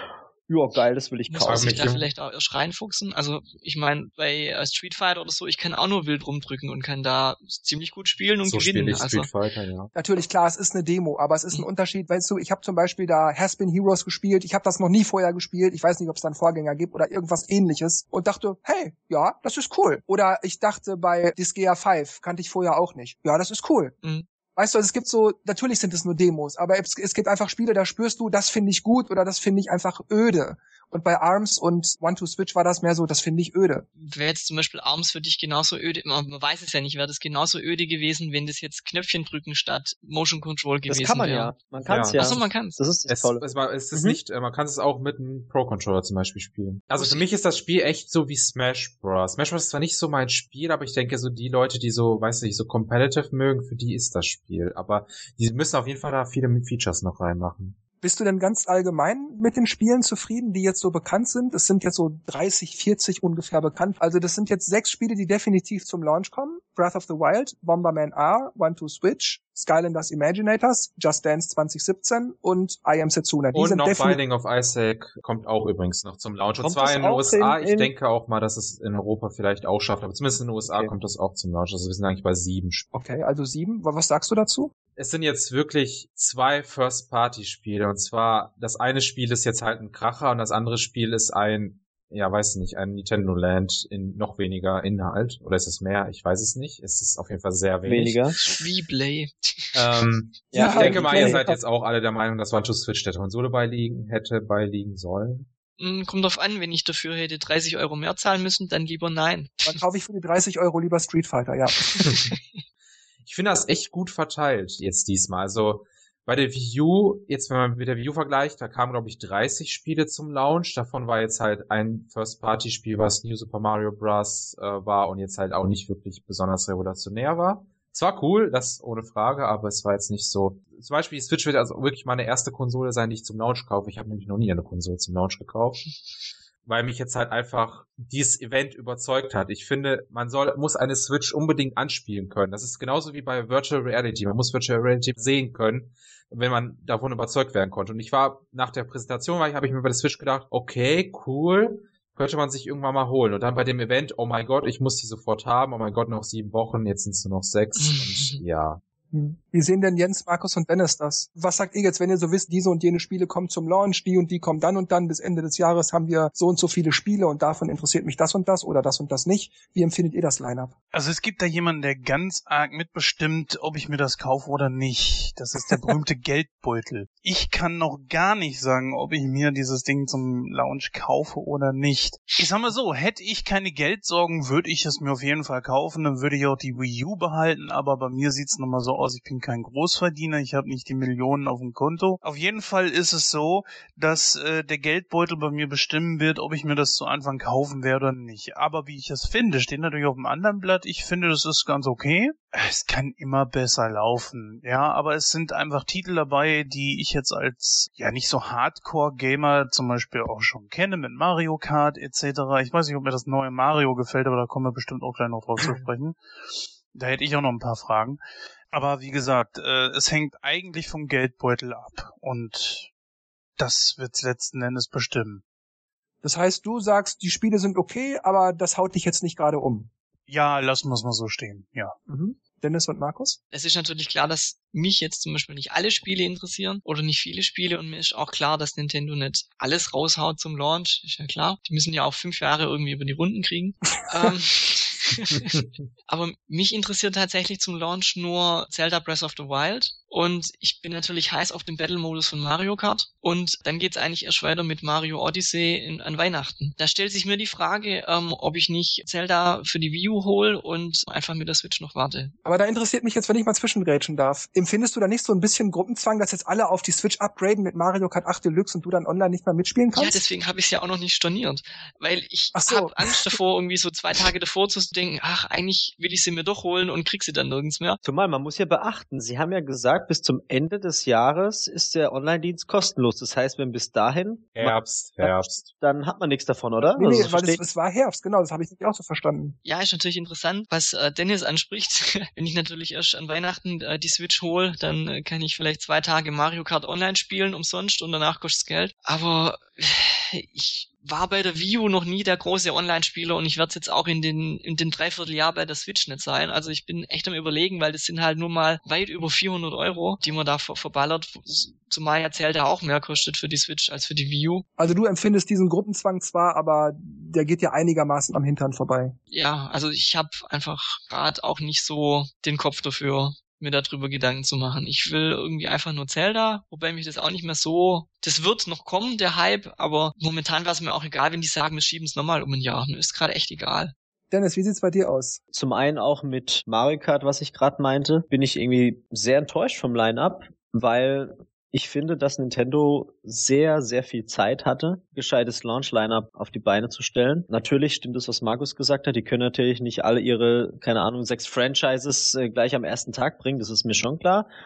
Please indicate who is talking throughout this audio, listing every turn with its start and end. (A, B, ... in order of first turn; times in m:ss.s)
0:00.5-0:01.9 A
0:01.3-0:09.3 B
0:01.4-0:02.0 C
0:08.4-0:09.9 C
0:09.9-0:23.9 D
0:24.6-0:33.8 D
0:34.0-0:41.5 B
0:40.9-0:44.2 A
0:41.8-0:42.2 C
0:42.2-0:42.8 B
0:43.1-0:57.8 C
0:46.9-0:47.2 B
0:58.0-1:14.2 D
1:13.5-1:22.9 C
1:16.6-1:17.9 A
1:22.9-1:24.7 D
1:25.0-1:38.3 C
1:37.8-1:38.4 A
1:38.4-1:39.8 B
1:39.7-1:45.5 C
1:40.5-1:41.4 A
1:40.5-1:41.6 D
1:45.8-1:49.8 B
1:49.6-1:52.1 D
1:51.9-1:52.2 B
1:53.2-2:15.9 C
2:16.6-2:38.8 C
2:37.8-2:38.4 B
2:39.1-2:50.7 D
2:50.9-3:36.2 E
3:36.9-3:38.2 E
3:38.7-3:42.9 E
3:43.6-3:45.4 E
3:46.2-3:49.9 D
3:50.3-3:51.9 E
3:52.1-3:53.4 D
3:53.5-4:22.3 B
4:22.4-4:30.2 D
4:29.9-4:38.0 B
4:32.5-4:33.4 D
4:38.0-4:47.6 A
4:44.6-4:45.6 C
4:47.0-4:49.6 D
4:49.6-5:14.6 B
5:14.8-5:19.2 D
5:19.3-5:33.9 B
5:34.3-5:35.4 D
5:35.5-5:54.5 A